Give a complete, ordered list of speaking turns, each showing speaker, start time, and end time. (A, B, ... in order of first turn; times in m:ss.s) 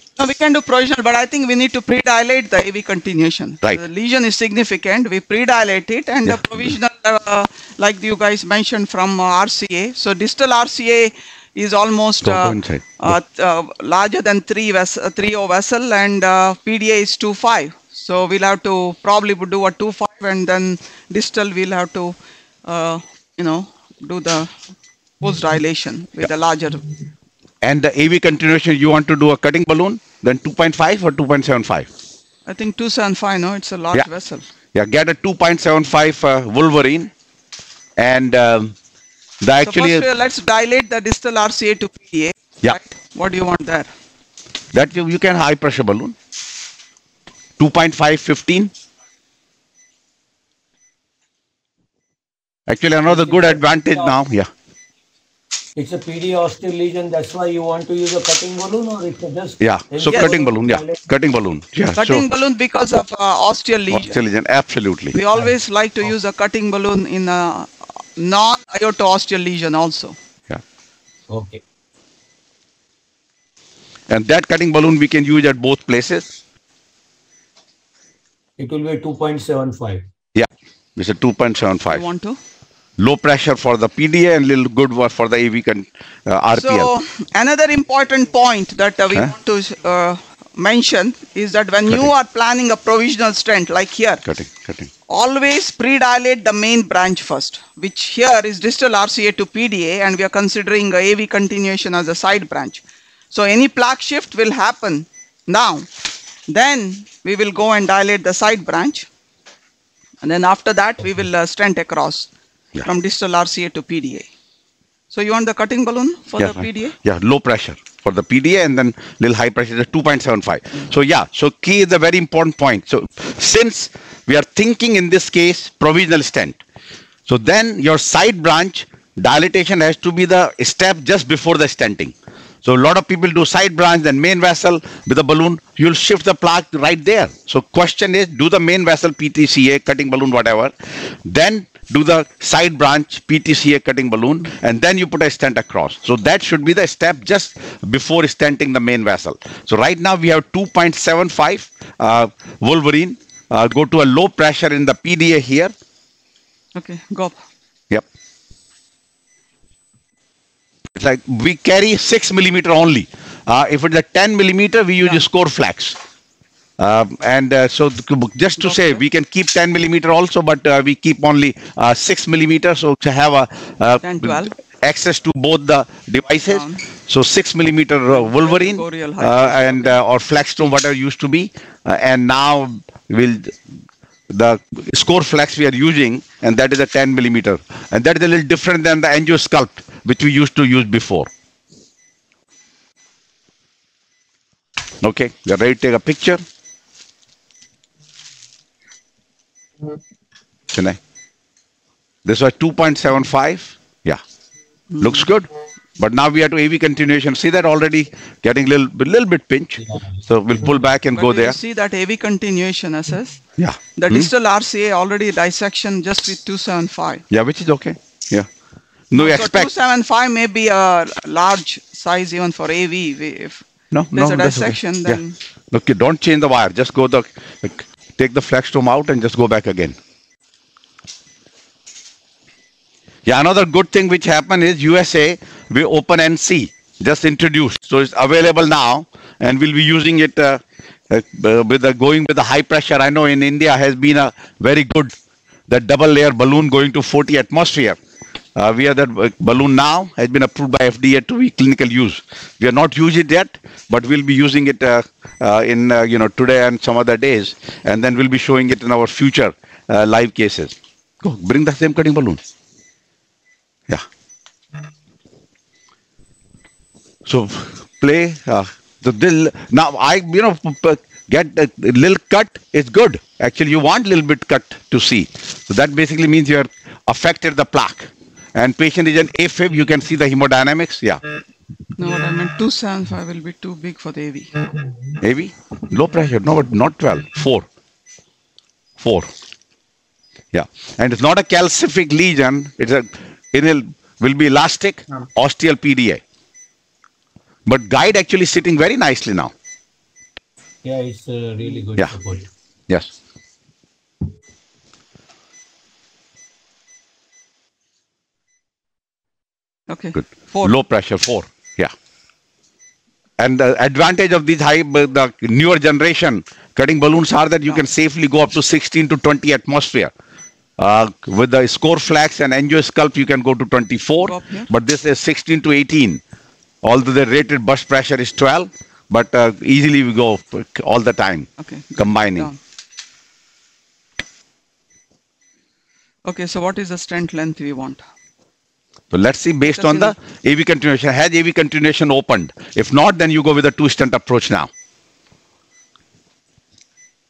0:00.2-0:24.5 A
0:06.2-0:06.7 B
0:12.2-0:13.2 B
0:25.2-0:26.9 A
0:27.6-0:31.9 B
0:32.4-0:34.5 A
0:34.7-0:37.1 B
0:38.0-0:38.8 B
0:39.4-0:40.0 B
0:39.6-0:43.9 A
0:44.7-0:46.1 B
0:47.6-0:48.7 B
0:52.7-0:54.5 B
0:53.0-0:54.2 C
0:55.8-1:01.0 C
0:59.6-1:02.2 B
1:00.1-1:00.4 A
1:02.0-1:04.2 A
1:03.9-1:05.2 B
1:05.1-1:10.2 A
1:11.3-1:11.6 C
1:14.1-1:16.4 B
1:18.6-1:20.0 C
1:20.3-1:22.0 B
1:21.9-1:22.4 A
1:23.0-1:26.9 B
1:26.6-1:34.2 A
1:34.2-1:34.9 B
1:35.1-1:45.9 A
1:46.5-1:49.1 A
1:50.2-1:52.3 A
1:52.8-1:54.3 A
1:55.1-1:57.0 A
1:56.4-2:06.6 B
2:07.3-2:20.7 B
2:21.2-2:35.7 B
2:36.7-2:37.4 A
2:41.0-2:46.0 B
2:46.8-3:03.6 B
2:48.6-2:49.0 A
2:54.0-2:54.5 A
2:56.4-2:56.8 A
2:58.1-3:00.0 A
3:04.3-3:11.3 B
3:15.0-3:16.4 B
3:20.7-3:21.0 B
3:22.2-3:24.2 B
3:24.9-3:25.2 A
3:25.0-3:31.6 B
3:31.2-3:33.4 A
3:33.6-3:34.3 B
3:34.0-3:37.2 A
3:37.3-3:38.5 B
3:39.1-3:39.7 B
3:39.1-3:43.6 A
3:43.9-3:45.2 B
3:44.1-3:45.4 A
3:45.7-3:50.0 B
3:53.2-4:05.1 B
4:05.7-4:08.0 B
4:08.6-4:22.4 B
4:27.2-4:41.2 B
4:42.0-4:44.6 A
4:45.2-4:47.7 B
4:49.0-4:49.3 B
4:50.5-4:56.2 B
4:57.6-4:59.5 B
5:00.8-5:02.5 C
5:09.9-5:10.7 A
5:10.2-5:11.9 B
5:13.4-5:20.1 B
5:20.8-5:26.2 B
5:24.2-5:24.7 A
5:26.8-5:32.5 B
5:31.6-5:32.6 A
5:36.2-5:38.0 A
5:39.1-5:44.7 B
5:39.7-5:40.1 A